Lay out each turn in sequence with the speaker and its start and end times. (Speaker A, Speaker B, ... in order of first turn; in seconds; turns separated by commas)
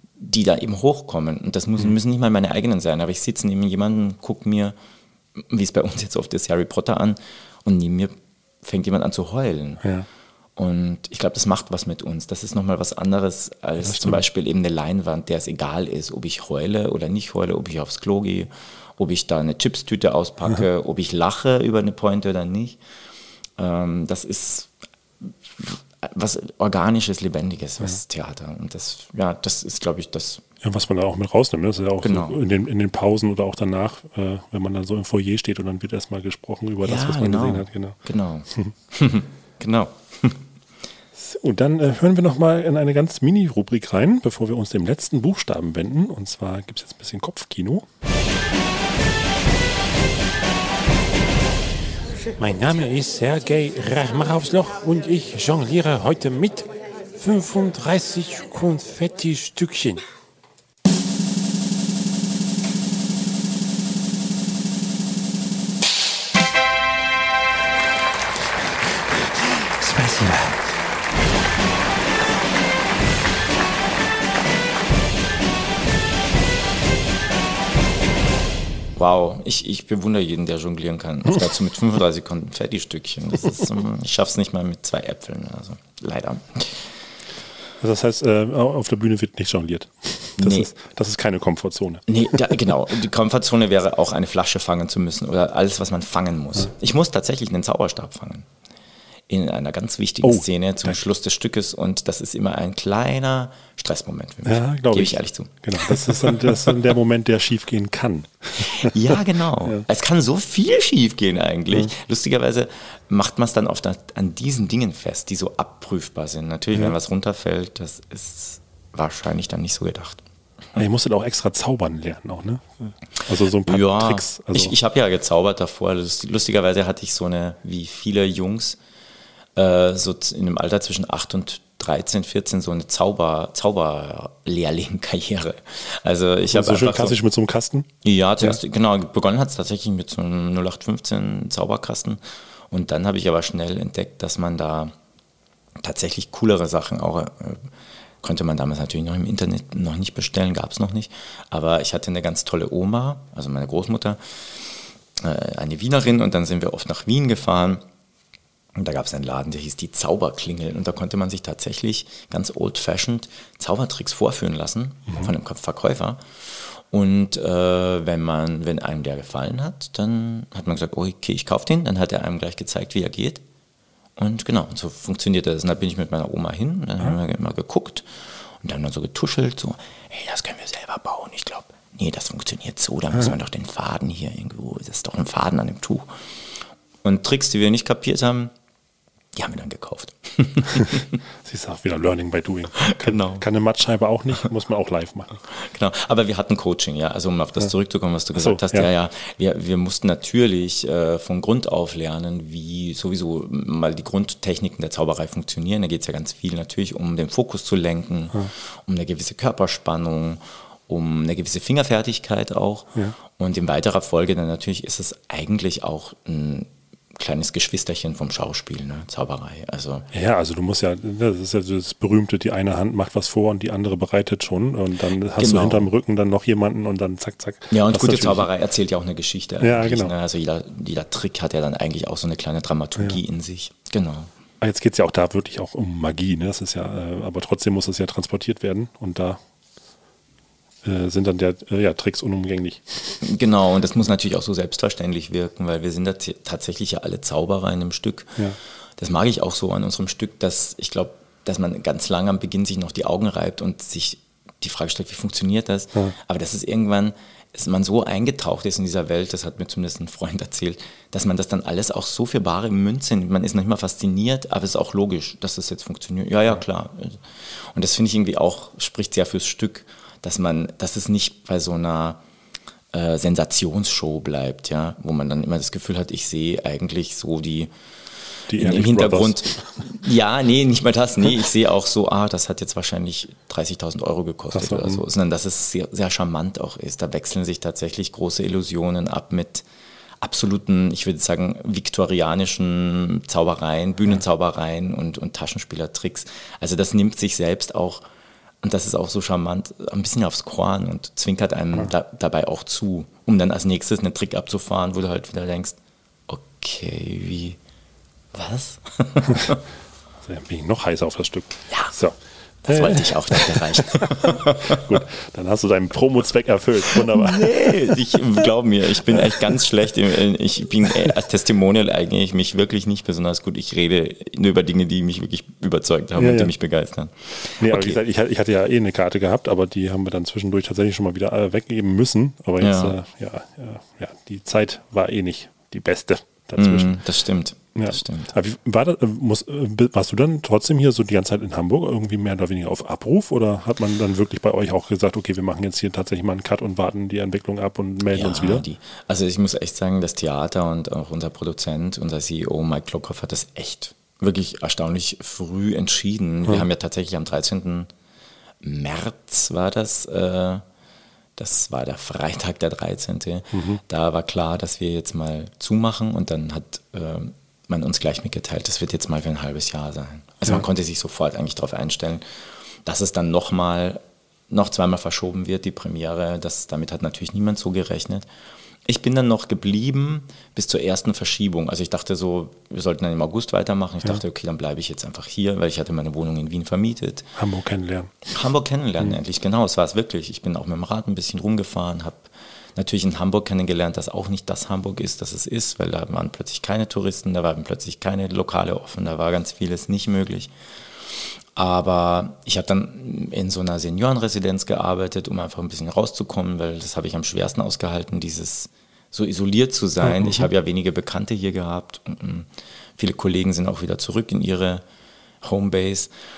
Speaker A: 0.2-4.8, Speaker A: 5.4-9.8, Speaker A: 10.6-22.8, Speaker B: 13.8-14.2, Speaker A: 23.6-24.7, Speaker A: 25.2-30.4, Speaker B: 30.6-38.0, Speaker A: 32.0-32.4, Speaker A: 36.8-40.4, Speaker B: 41.2-47.9, Speaker C: 52.4-60.0, Speaker C: 69.8-70.5, Speaker A: 79.0-86.9, Speaker B: 87.8-92.7, Speaker A: 90.4-90.7, Speaker A: 92.1-98.5, Speaker A: 99.3-106.7, Speaker B: 100.2-101.0, Speaker B: 104.5-109.8, Speaker A: 108.6-120.2, Speaker B: 120.8-124.7, Speaker A: 123.7-128.8, Speaker A: 129.6-137.2, Speaker B: 136.5-137.9, Speaker A: 138.0-144.9, Speaker A: 145.8-147.7, Speaker A: 148.2-154.2, Speaker A: 155.2-157.8, Speaker A: 158.8-173.4, Speaker A: 174.2-178.1, Speaker A: 178.6-186.1, Speaker A: 187.0-188.5, Speaker A: 189.4-191.2, Speaker B: 191.4-195.4, Speaker A: 192.8-193.4, Speaker A: 195.6-220.1, Speaker B: 198.3-198.9, Speaker B: 220.1-228.5, Speaker A: 225.4-225.9, Speaker A: 227.7-234.3, Speaker B: 229.6-230.1, Speaker B: 234.6-239.4, Speaker B: 240.8-243.2, Speaker A: 243.2-248.4, Speaker A: 249.0-267.2, Speaker A: 267.7-272.2, Speaker A: 272.9-277.7, Speaker B: 278.5-279.8, Speaker A: 278.5-289.6, Speaker B: 284.5-285.0, Speaker A: 290.2-298.0, Speaker A: 298.6-305.8, Speaker A: 306.3-307.6, Speaker A: 308.3-309.6, Speaker B: 310.2-318.0, Speaker A: 312.6-314.8, Speaker A: 317.1-328.0, Speaker B: 326.2-326.5, Speaker B: 327.6-337.0, Speaker A: 332.6-333.0, Speaker A: 336.6-338.3, Speaker B: 337.8-348.6, Speaker A: 348.1-357.9, Speaker A: 358.6-360.6, Speaker A: 361.4-372.2, Speaker B: 363.5-363.8, Speaker A: 372.9-378.3, Speaker A: 378.9-387.3, Speaker B: 387.4-388.2, Speaker A: 388.3-400.5, Speaker A: 401.6-412.5, Speaker B: 410.1-410.4, Speaker A: 413.0-414.8, Speaker A: 415.4-416.1